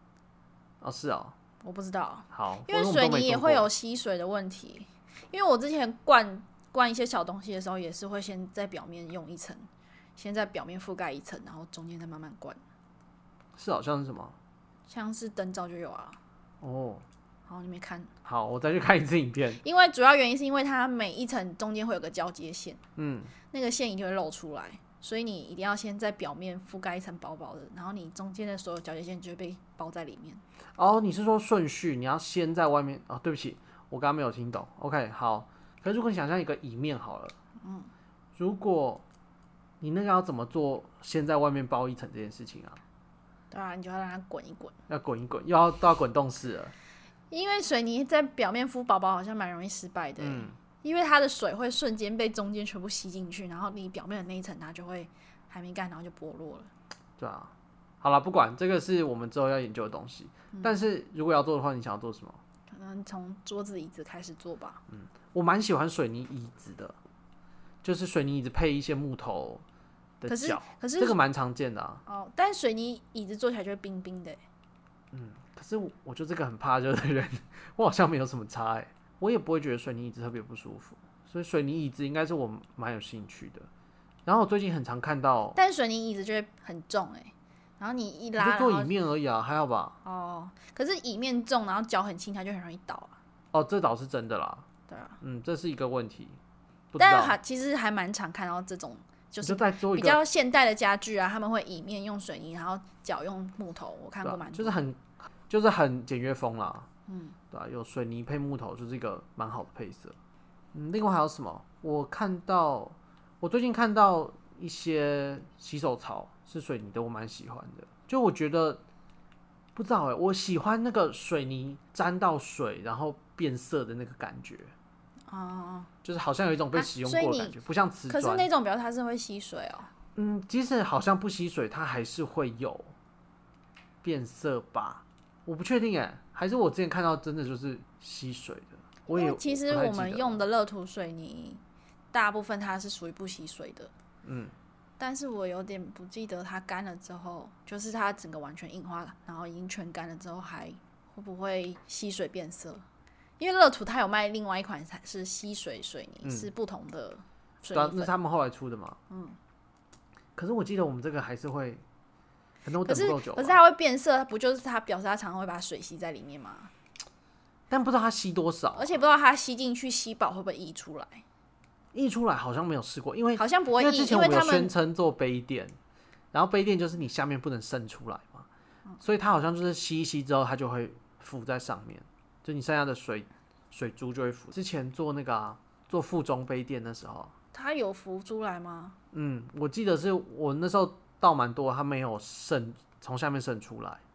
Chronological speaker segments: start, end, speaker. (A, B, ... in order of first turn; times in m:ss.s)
0:00.8-0:01.3 A
0:01.6-0:12.6 B
0:02.3-0:03.7 A
0:13.6-0:14.4 A
0:14.9-0:16.2 B
0:16.6-0:17.0 A
0:17.5-0:18.1 B
0:18.2-0:19.6 A
0:19.6-0:22.8 B
0:23.0-0:23.3 A
0:23.5-0:30.4 B
0:30.8-0:37.3 A
0:37.6-0:37.9 B
0:38.4-0:39.0 A
0:39.8-0:42.8 A
0:43.5-0:44.8 B
0:44.9-0:46.7 A
0:47.3-0:56.7 B
0:50.2-0:50.6 A
0:57.2-1:02.4 A
1:00.5-1:00.8 B
1:02.7-1:04.8 B
1:04.9-1:07.0 A
1:07.8-1:09.6 A
1:10.2-1:12.0 A
1:10.3-1:11.2 B
1:12.0-1:14.4 B
1:15.1-1:23.7 A
1:24.2-1:25.6 A
1:25.5-1:28.9 B
1:28.4-1:30.0 A
1:30.0-1:33.2 B
1:33.5-1:34.7 A
1:34.9-1:35.2 B
1:35.2-1:36.4 A
1:36.9-1:37.4 A
1:37.0-1:44.8 B
1:39.4-1:40.2 A
1:44.2-1:46.9 A
1:47.1-1:47.4 B
1:47.5-1:50.2 A
1:50.7-1:58.8 A
1:59.8-2:04.7 A
2:05.3-2:05.9 B
2:06.0-2:08.5 A
2:06.7-2:07.6 B
2:08.1-2:09.9 B
2:10.2-2:12.9 A
2:14.0-2:20.4 A
2:19.1-2:21.6 B
2:22.1-2:23.9 B
2:24.2-2:24.5 A
2:25.0-2:32.8 B
2:33.4-2:38.1 B
2:36.2-2:36.5 A
2:37.7-2:39.0 A
2:39.1-2:39.4 B
2:40.4-2:41.8 A
2:42.6-2:43.6 A
2:42.8-2:46.7 B
2:47.7-2:48.9 A
2:48.8-2:51.2 B
2:51.9-2:55.8 A
2:53.4-2:54.7 B
2:56.3-2:58.5 A
2:59.0-3:07.3 A
3:07.5-3:09.0 B
3:09.1-3:14.0 A